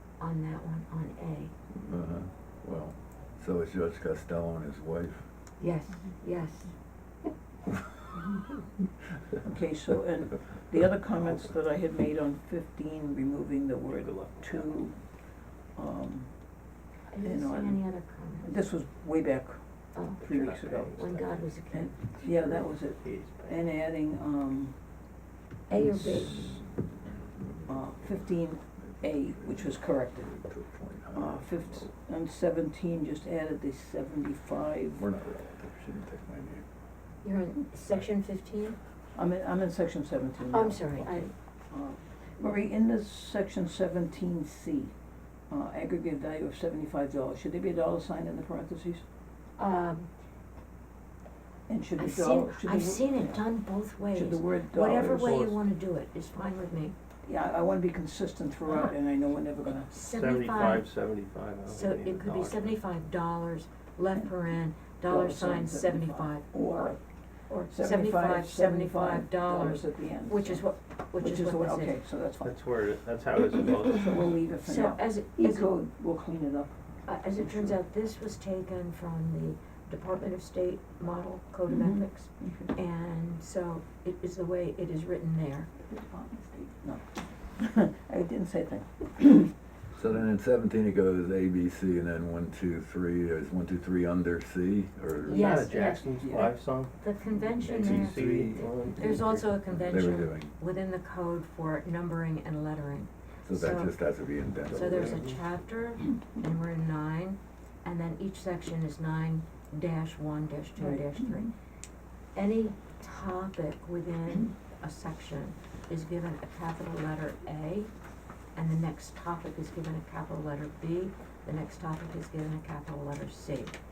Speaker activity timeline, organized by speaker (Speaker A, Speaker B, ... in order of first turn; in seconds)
Speaker A: 0.2-1.5, 5.6-6.7, 17.1-18.6, 19.9-20.2, 20.9-21.9, 25.7-26.5, 37.2-38.8, 40.5-41.3, 49.6-50.1, 52.0-57.0, 59.9-60.9, 61.7-66.5, 67.5-72.0, 74.6-75.7, 77.1-85.7, 95.2-96.0, 97.0-98.4, 99.0-104.0, 104.7-111.5, 112.3-117.9, 118.6-123.8
Speaker B: 1.9-5.2, 28.8-31.9, 35.0-36.6, 90.0-95.6, 97.7-98.7, 99.8-100.5, 103.5-105.2
Speaker C: 9.4-15.0, 15.8-16.3, 17.2-17.8, 18.4-19.6, 20.2-21.2, 21.7-24.8, 25.7-26.6, 27.7-30.3, 31.1-35.1, 39.1-44.9, 45.5-49.0, 51.7-53.4, 54.1-55.5, 57.3-60.0, 65.1-67.0, 67.7-70.7, 71.2-72.9, 73.5-76.8, 77.3-77.8, 81.7-82.7, 85.8-87.0, 87.6-89.5, 95.2-96.5, 110.8-111.4
Speaker D: 13.9-14.8, 20.2-21.4, 22.8-23.7, 60.1-62.8, 72.4-74.4, 95.3-96.9, 97.7-99.7, 104.7-105.4